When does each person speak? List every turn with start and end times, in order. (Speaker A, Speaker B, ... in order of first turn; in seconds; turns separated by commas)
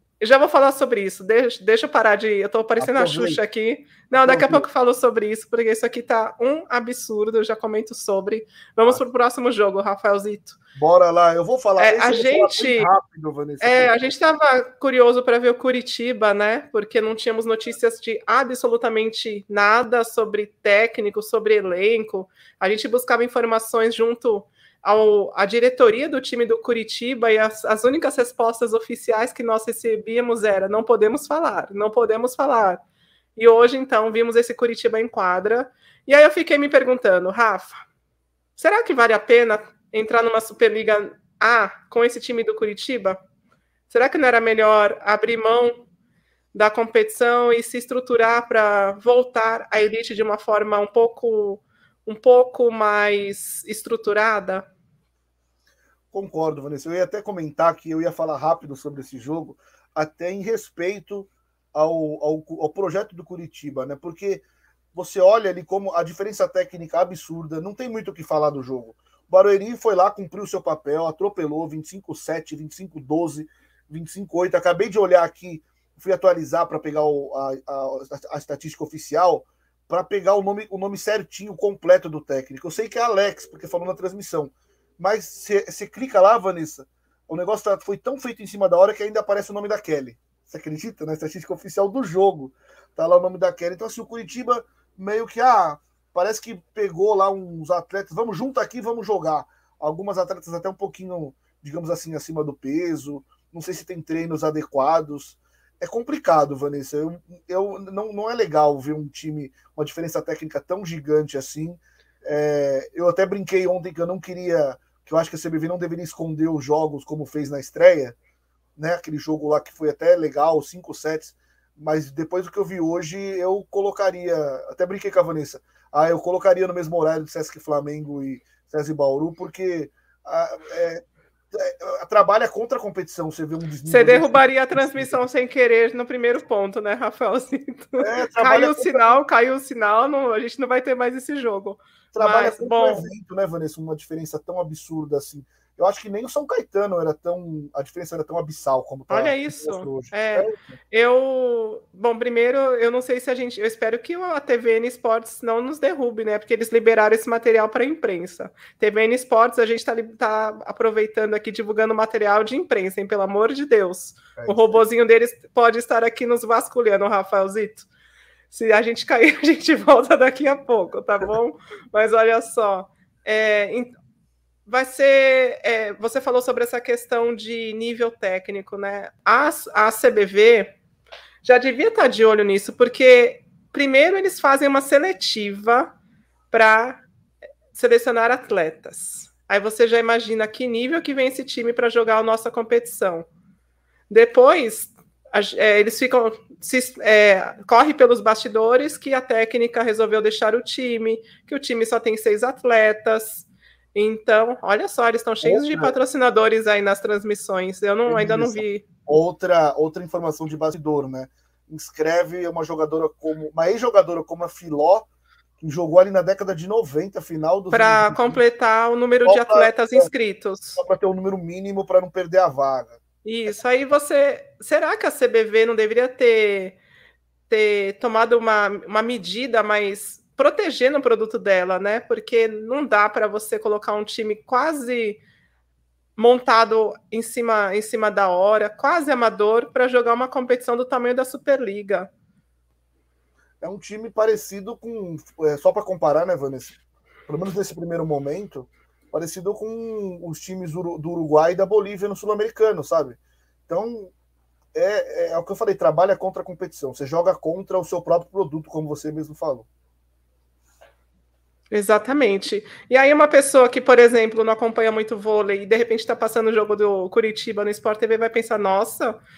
Speaker A: 0.2-10.6, Speaker B: 2.8-3.4, Speaker B: 4.2-4.7, Speaker B: 10.8-14.1, Speaker A: 11.8-12.9, Speaker A: 13.6-32.8, Speaker A: 33.4-37.8, Speaker A: 38.6-43.2, Speaker A: 43.9-45.8, Speaker A: 46.5-54.7, Speaker B: 56.1-118.2, Speaker B: 118.8-135.2, Speaker A: 133.9-143.1, Speaker B: 138.0-139.1, Speaker B: 142.1-150.8, Speaker A: 149.1-167.8, Speaker B: 164.3-164.8, Speaker A: 168.5-173.9, Speaker A: 174.7-180.7, Speaker A: 181.4-185.9, Speaker A: 186.5-187.0, Speaker A: 187.7-193.2, Speaker A: 194.1-208.8, Speaker B: 205.4-205.9, Speaker B: 208.1-215.1, Speaker B: 215.6-218.4, Speaker A: 217.7-220.8, Speaker B: 219.2-220.1, Speaker B: 220.8-223.0, Speaker A: 223.2-226.8, Speaker A: 227.5-235.2, Speaker A: 236.2-242.1, Speaker B: 243.6-254.1, Speaker B: 254.7-259.7, Speaker A: 261.7-269.2